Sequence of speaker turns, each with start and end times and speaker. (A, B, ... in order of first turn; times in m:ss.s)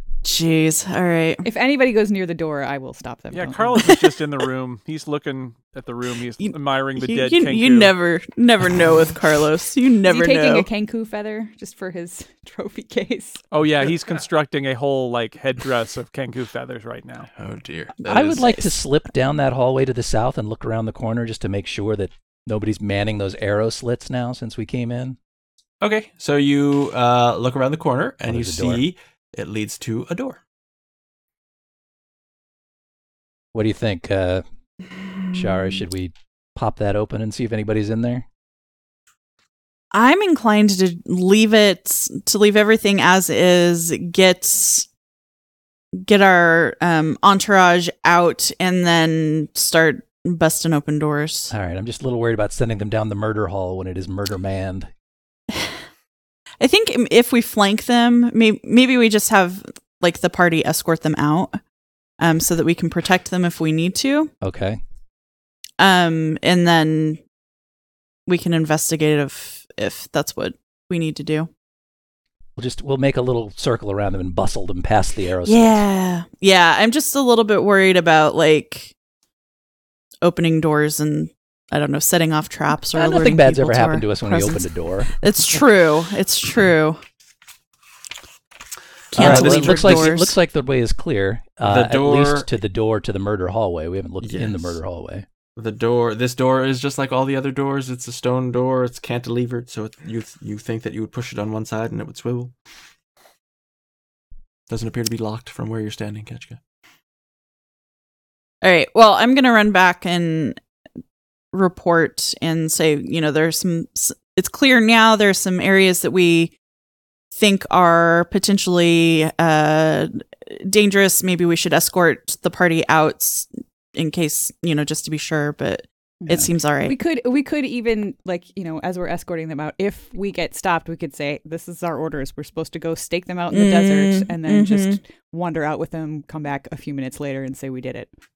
0:00.2-0:01.4 A
0:01.4-0:03.8 B
0:03.3-0:07.9 C
0:06.4-0:10.7 A
0:10.0-0:13.4 B
0:13.5-0:17.3 C
0:17.4-0:18.5 D
0:18.0-0:25.2 E
0:18.4-0:18.7 A
0:25.8-0:30.4 D
0:28.3-0:28.8 E
0:33.5-0:34.4 E
0:35.3-0:38.2 E
0:39.9-0:44.9 A
0:46.0-0:51.5 A
0:51.5-0:54.9 E
0:56.6-1:01.6 A
1:02.2-1:04.3 A
1:04.4-1:04.8 E
1:05.8-1:07.2 A
1:08.3-1:11.5 A
1:12.6-1:15.8 E
1:15.4-1:18.9 A
1:20.2-1:27.0 A
1:22.9-1:25.1 E
1:29.1-1:30.4 A
1:29.1-1:30.1 D
1:29.1-1:35.2 E
1:31.6-1:32.5 D
1:34.2-1:34.8 D
1:35.6-1:42.5 D
1:44.7-1:46.6 D
1:48.6-1:50.6 A
1:51.5-1:56.5 A
1:57.3-2:07.0 A
2:06.2-2:18.1 B
2:13.5-2:15.0 A